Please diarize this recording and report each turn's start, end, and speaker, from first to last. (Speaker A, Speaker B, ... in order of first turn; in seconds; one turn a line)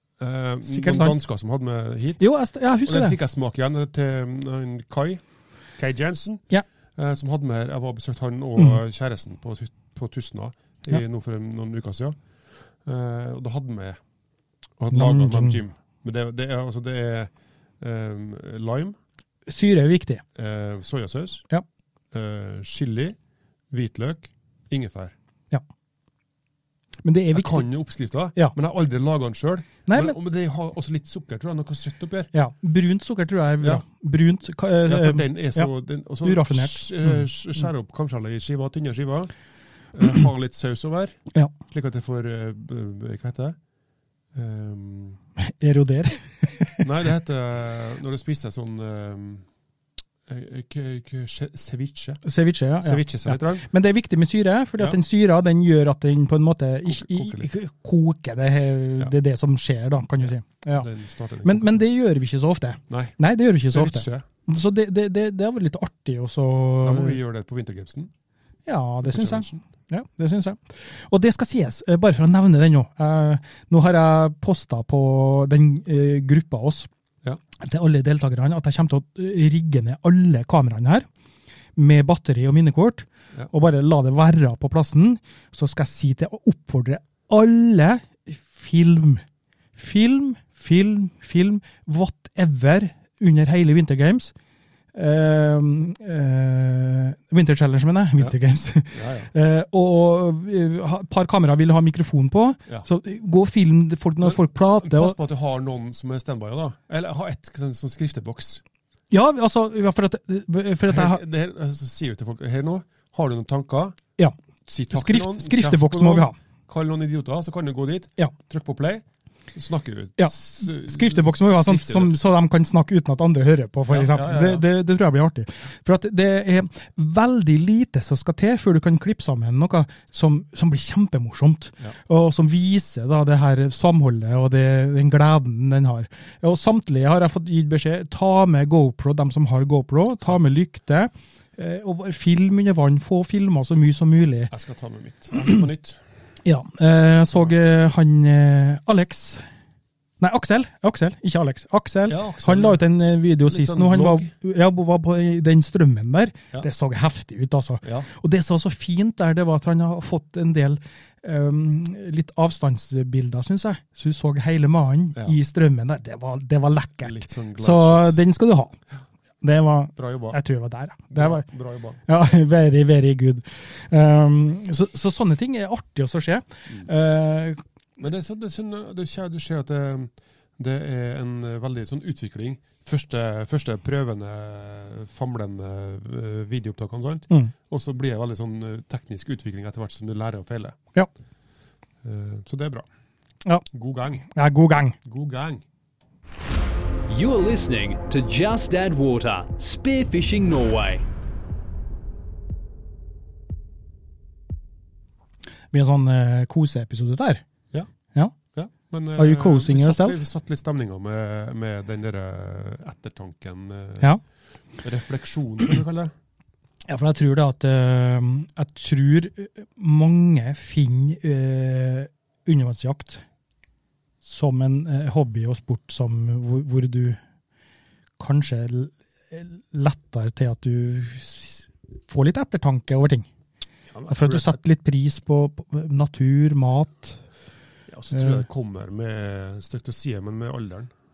Speaker A: 0.2-2.2
Speaker B: 0.6-1.2
Speaker B: 2.2-3.2
Speaker A: 2.9-5.2
Speaker A: 5.7-12.2
Speaker A: 12.8-14.0
Speaker A: 14.8-19.0
Speaker B: 14.9-15.6
Speaker B: 19.5-20.2
Speaker A: 20.4-21.5
Speaker A: 22.1-23.2
Speaker A: 23.7-25.1
Speaker B: 27.0-27.7
Speaker A: 27.3-32.3
Speaker B: 29.9-30.2
Speaker B: 32.3-35.7
Speaker A: 34.9-39.3
Speaker B: 36.2-37.2
Speaker A: 39.9-43.6
Speaker A: 44.3-45.2
Speaker B: 45.4-46.8
Speaker A: 46.8-49.5
Speaker A: 50.3-52.2
Speaker B: 52.2-60.9
Speaker A: 52.8-53.7
Speaker A: 56.9-57.5
Speaker A: 60.2-61.9
Speaker B: 61.4-67.2
Speaker A: 62.9-64.3
Speaker A: 66.8-68.1
Speaker B: 68.7-76.9
Speaker A: 69.0-69.6
Speaker B: 77.6-81.1
Speaker B: 81.8-89.2
Speaker B: 89.8-94.3
Speaker B: 94.9-105.2
Speaker A: 98.9-99.3
Speaker A: 104.2-108.6
Speaker B: 109.1-111.2
Speaker A: 110.9-114.0
Speaker A: 114.7-122.2
Speaker B: 114.9-116.3
Speaker B: 120.2-144.5
Speaker A: 123.9-124.7
Speaker A: 144.5-146.0
Speaker B: 146.4-149.4
Speaker B: 150.2-168.8
Speaker A: 152.1-152.8
Speaker A: 153.4-154.3
Speaker A: 157.8-158.1
Speaker A: 167.0-168.2
Speaker B: 169.4-171.5
Speaker A: 170.0-170.4
Speaker A: 171.1-172.0
Speaker B: 172.1-177.6
Speaker A: 178.0-190.8
Speaker A: 192.0-192.9
Speaker A: 193.7-194.3
Speaker B: 194.3-195.0
Speaker A: 195.0-195.6
Speaker C: 197.1-201.1
Speaker B: 205.7-207.4
Speaker A: 208.5-214.1
Speaker B: 209.2-210.2
Speaker A: 214.8-216.1
Speaker B: 216.9-223.2
Speaker B: 224.2-227.2
Speaker B: 228.2-233.3
Speaker A: 233.9-234.6
Speaker B: 234.1-237.2
Speaker A: 237.9-240.9
Speaker B: 238.1-238.4